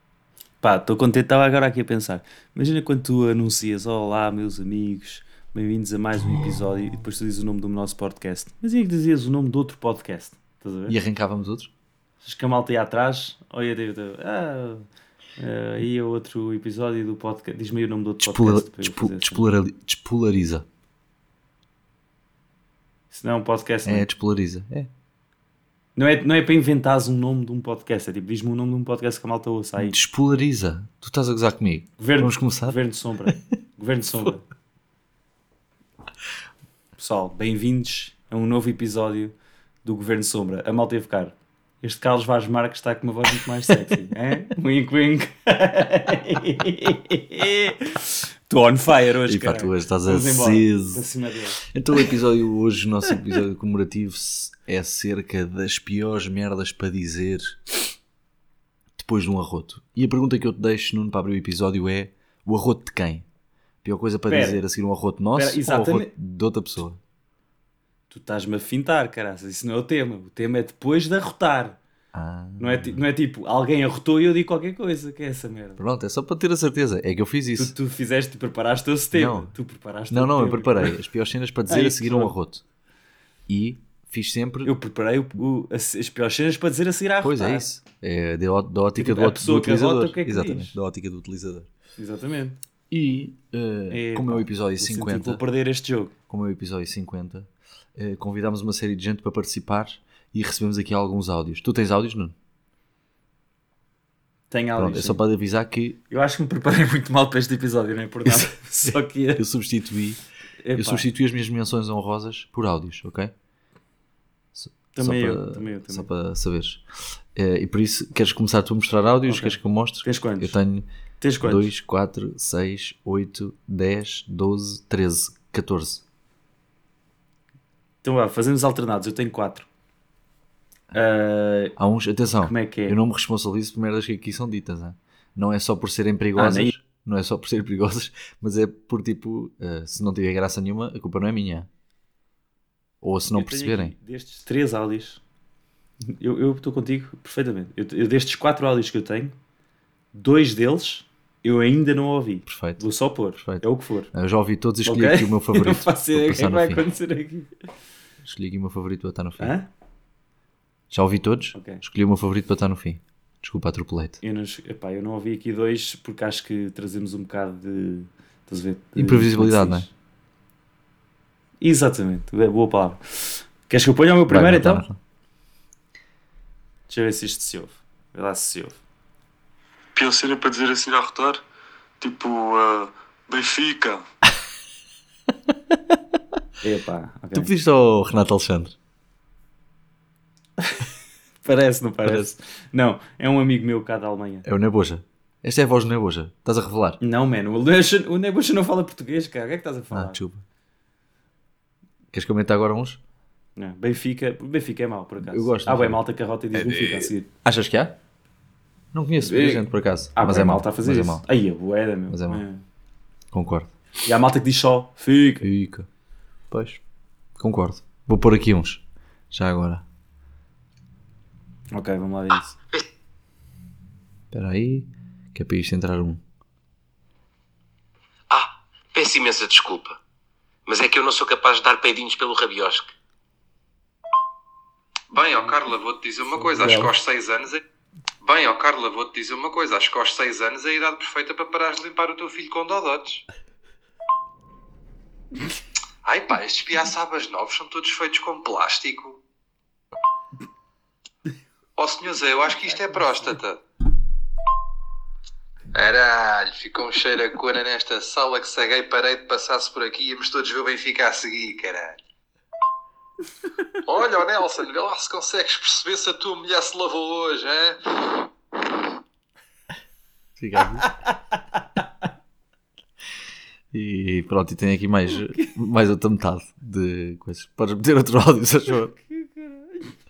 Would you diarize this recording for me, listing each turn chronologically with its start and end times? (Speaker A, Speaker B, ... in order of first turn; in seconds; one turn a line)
Speaker A: 0.6-10.9
Speaker B: 10.9-11.7
Speaker A: 12.2-14.8
Speaker A: 15.4-19.4
Speaker B: 18.2-20.7
Speaker A: 23.1-24.1
Speaker B: 23.8-24.9
Speaker A: 25.9-29.9
Speaker B: 29.8-33.4
Speaker A: 32.0-34.4
Speaker A: 37.0-51.6
Speaker B: 49.2-51.1
Speaker B: 51.7-57.8
Speaker B: 59.0-63.2
Speaker B: 63.8-67.0
Speaker A: 64.3-64.6
Speaker A: 65.3-66.1
Speaker A: 68.1-71.8
Speaker B: 72.1-73.0
Speaker A: 72.6-75.8
Speaker B: 75.8-77.7
Speaker A: 77.6-81.0
Speaker B: 79.1-79.5
Speaker B: 80.1-82.6
Speaker A: 81.7-82.3
Speaker B: 83.5-84.7
Speaker A: 84.6-87.7
Speaker B: 87.2-91.7
Speaker A: 89.0-90.8
Speaker A: 92.0-92.6
Speaker B: 92.9-95.4
Speaker A: 93.9-96.1
Speaker B: 96.3-102.3
Speaker A: 104.5-105.2
Speaker B: 104.8-106.0
Speaker A: 106.1-109.4
Speaker B: 109.3-110.2
Speaker A: 110.6-111.1
Speaker B: 110.7-113.3
Speaker B: 114.5-116.8
Speaker A: 114.9-116.1
Speaker B: 117.3-120.9
Speaker A: 119.3-120.6
Speaker A: 121.2-121.7
Speaker B: 121.4-126.0
Speaker A: 128.0-129.7
Speaker A: 130.9-131.8
Speaker B: 131.8-141.7
Speaker A: 132.4-133.0
Speaker A: 136.3-136.8
Speaker B: 143.0-143.9
Speaker A: 143.3-145.2
Speaker A: 146.0-149.3
Speaker A: 150.1-154.1
Speaker B: 152.4-152.8
Speaker B: 153.4-156.8
Speaker A: 154.8-157.5
Speaker B: 158.2-159.5
Speaker A: 159.4-159.7
Speaker B: 160.9-164.2
Speaker A: 161.5-161.8
Speaker A: 164.2-169.9
Speaker B: 169.0-169.9
Speaker A: 171.6-174.8
Speaker B: 174.3-175.0
Speaker A: 176.9-178.8
Speaker C: 180.2-180.5
Speaker C: 182.0-184.0
Speaker A: 186.6-187.5
Speaker B: 187.3-188.7
Speaker A: 191.4-194.5
Speaker B: 192.0-192.3
Speaker B: 194.4-197.0
Speaker A: 197.0-200.2
Speaker B: 199.9-200.4
Speaker B: 202.1-203.0
Speaker A: 203.6-207.3
Speaker B: 205.2-206.0
Speaker B: 207.4-208.0
Speaker B: 208.9-211.2
Speaker A: 209.2-212.6
Speaker B: 212.1-212.4
Speaker B: 213.3-213.7
Speaker A: 214.0-215.5
Speaker B: 215.4-215.9
Speaker B: 216.5-216.8
Speaker B: 217.3-219.8
Speaker A: 221.7-222.6
Speaker B: 224.3-226.2
Speaker D: 228.3-230.0
Speaker D: 230.7-232.9
Speaker E: 235.1-237.6
Speaker E: 238.2-243.2
Speaker E: 246.0-249.2
Speaker E: 251.8-253.6
Speaker E: 255.7-262.0
Speaker E: 263.8-268.2
Speaker B: 270.4-270.9
Speaker B: 273.7-278.9
Speaker A: 275.3-275.5
Speaker A: 278.9-279.9